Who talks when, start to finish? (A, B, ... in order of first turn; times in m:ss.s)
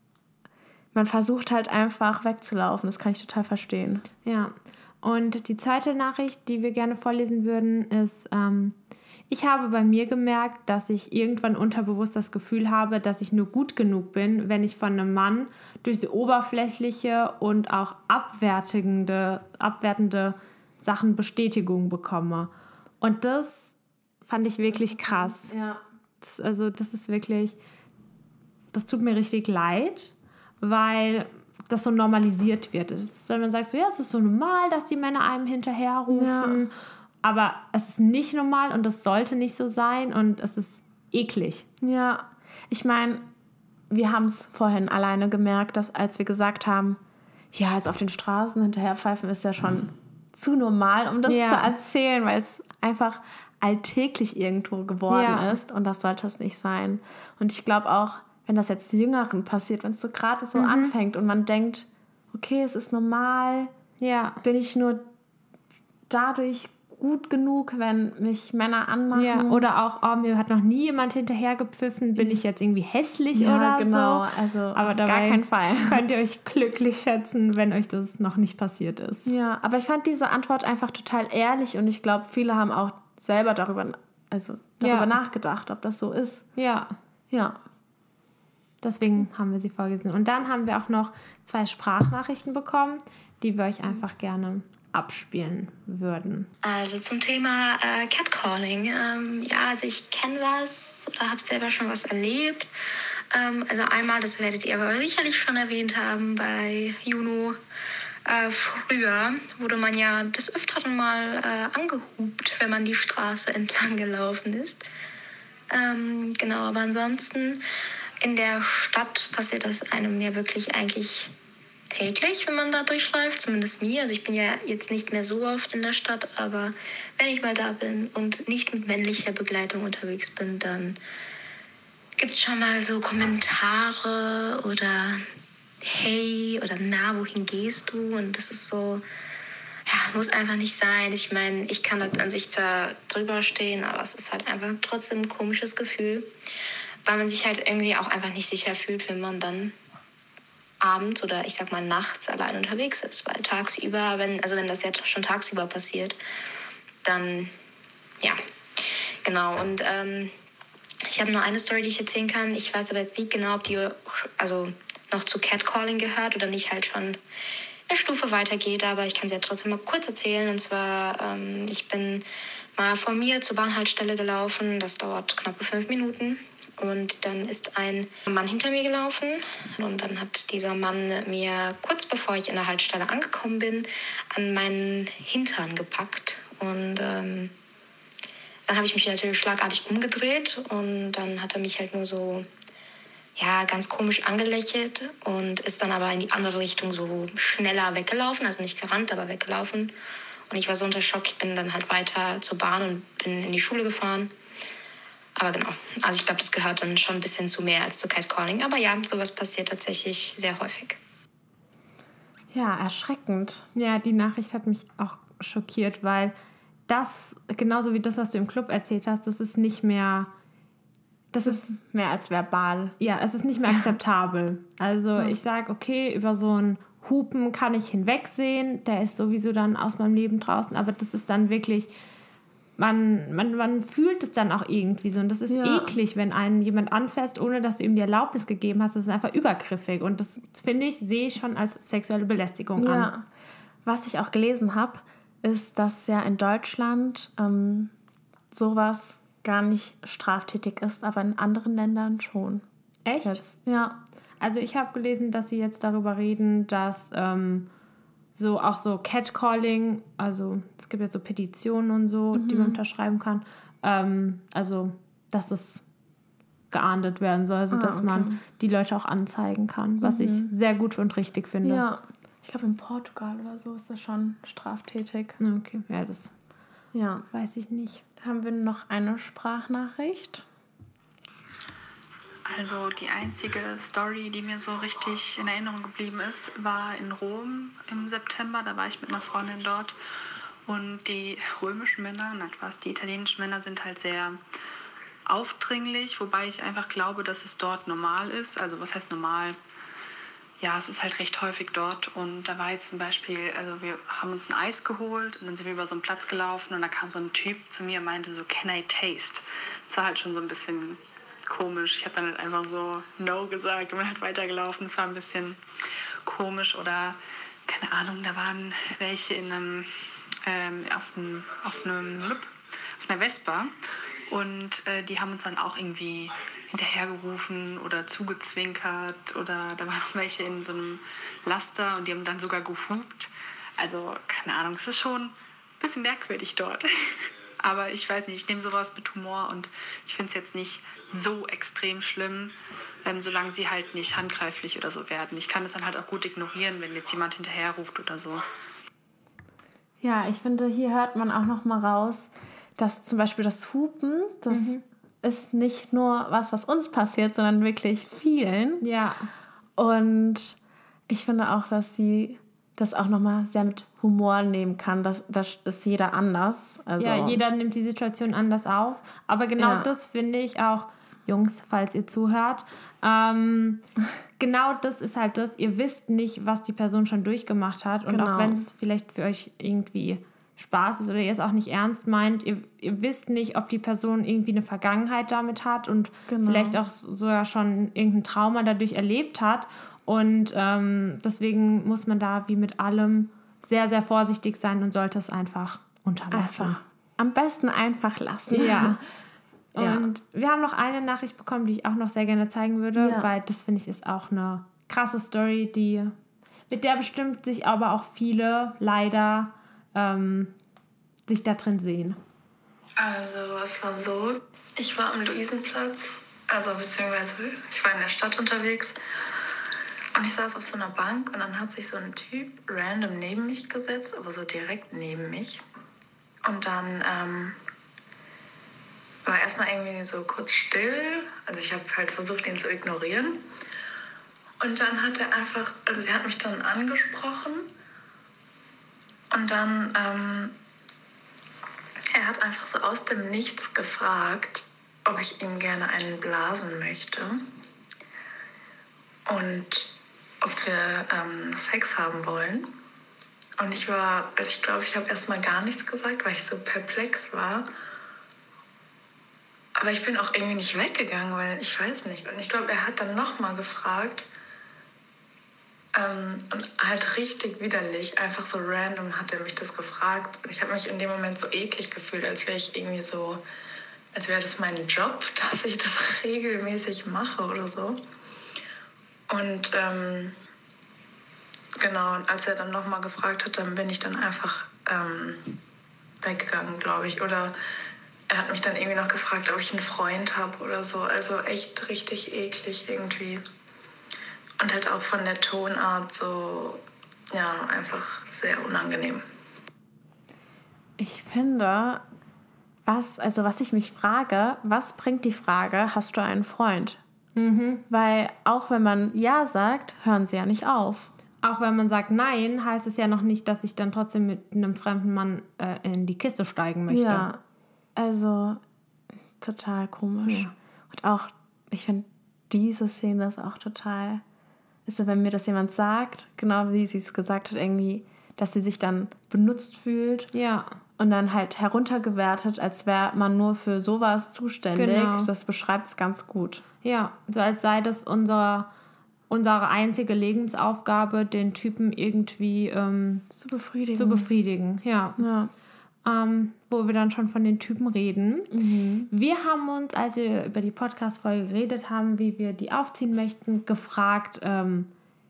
0:00.9-0:04.0 A
0:04.2-0:08.8 B
0:09.3-0:23.7 B
0:24.2-0:25.5 B
0:24.6-0:25.8 A
0:26.2-0:27.6 B
0:28.7-0:36.7 B
0:36.1-0:36.6 A
0:37.2-0:41.6 B
0:41.8-0:43.3 A
0:43.9-0:47.0 A
0:47.5-1:03.7 A
0:51.2-0:51.7 B
0:55.1-0:55.6 B
1:00.5-1:00.9 B
1:04.0-1:04.4 B
1:04.4-1:05.1 A
1:06.1-1:09.6 A
1:09.1-1:19.3 B
1:13.3-1:16.0 A
1:19.2-1:26.5 A
1:24.8-1:25.1 B
1:26.6-1:26.9 B
1:27.3-1:27.6 A
1:28.8-1:36.5 B
1:36.6-1:42.7 C
1:43.3-1:47.6 C
1:48.2-1:54.8 C
1:55.7-1:57.6 C
1:58.2-2:01.3 C
2:01.9-2:11.0 C
2:12.2-2:15.2 C
2:15.8-2:19.0 C
2:19.9-2:26.3 C
2:27.0-2:29.7 C
2:30.8-2:36.2 C
2:37.0-2:37.5 C
2:39.2-2:40.3 C
2:41.1-2:47.2 C
2:47.9-2:52.2 C
2:52.8-3:07.5 C
3:08.7-3:12.4 C
3:13.4-3:19.9 C
3:20.5-3:24.3 C
3:25.4-3:31.0 C
3:32.5-3:33.7 A
3:33.7-3:36.3 B
3:36.9-3:40.3 B
3:41.3-3:41.7 B
3:41.4-3:42.9 A
3:43.0-3:51.9 B
3:52.8-4:03.1 B
3:55.5-3:55.9 A
4:02.8-4:03.2 A
4:03.8-4:07.9 A
4:08.5-4:12.6 A
4:13.0-4:13.4 B
4:13.2-4:14.0 A
4:14.4-4:17.7 B
4:18.4-4:25.8 B
4:22.3-4:22.8 A
4:26.7-4:31.8 B
4:27.7-4:28.4 A
4:30.0-4:30.5 A
4:31.6-4:35.4 A
4:35.4-4:36.3 B
4:36.9-4:37.2 A
4:37.3-4:38.0 B
4:38.2-4:40.4 A
4:42.5-4:49.9 D
4:50.6-4:54.4 D
4:55.2-4:59.6 D
5:00.6-5:15.6 D
5:16.2-5:19.9 D
5:20.4-5:23.7 D
5:24.3-5:42.5 D
5:43.0-5:48.4 D
5:50.0-5:58.8 A
5:54.5-5:54.8 B
5:58.8-5:59.3 B
5:59.8-6:00.6 A
6:01.1-6:07.4 A
6:07.0-6:13.8 B
6:09.6-6:09.9 A
6:14.4-6:36.8 B
6:18.1-6:18.6 A
6:26.3-6:26.8 A
6:36.3-6:39.0 A
6:38.5-6:39.0 B
6:39.7-6:46.1 B
6:39.8-6:40.1 A
6:43.0-6:43.3 A
6:46.7-6:50.5 B
6:51.3-6:52.2 B
6:53.0-6:59.0 E
7:00.1-7:05.6 E
7:06.4-7:07.6 E
7:09.2-7:13.4 E
7:14.6-7:17.7 E
7:19.3-7:20.5 E
7:22.1-7:27.4 E
7:29.3-7:29.9 E
7:30.4-7:32.7 E
7:33.6-7:37.6 E
7:39.8-7:44.2 E
7:45.9-7:53.4 E
7:54.1-7:58.0 E
7:59.3-8:00.3 E
8:01.8-8:05.6 E
8:06.2-8:07.5 E
8:08.3-8:13.4 E
8:14.6-8:19.2 E
8:21.0-8:22.0 A
8:22.8-8:27.0 A
8:27.4-8:27.8 B
8:27.9-8:31.1 A
8:31.4-8:37.3 B
8:36.9-8:37.4 A
8:38.0-8:38.6 A
8:39.4-8:44.2 A
8:40.2-8:40.5 B
8:44.8-8:50.3 A
8:50.3-8:50.7 B
8:51.0-8:56.6 A
8:54.7-8:55.3 B
8:56.8-8:58.7 B
8:59.3-9:03.3 B
9:03.3-9:04.3 A
9:03.9-9:05.2 B
9:05.2-9:05.5 A
9:06.0-9:08.6 B
9:08.5-9:09.1 A
9:09.1-9:14.9 B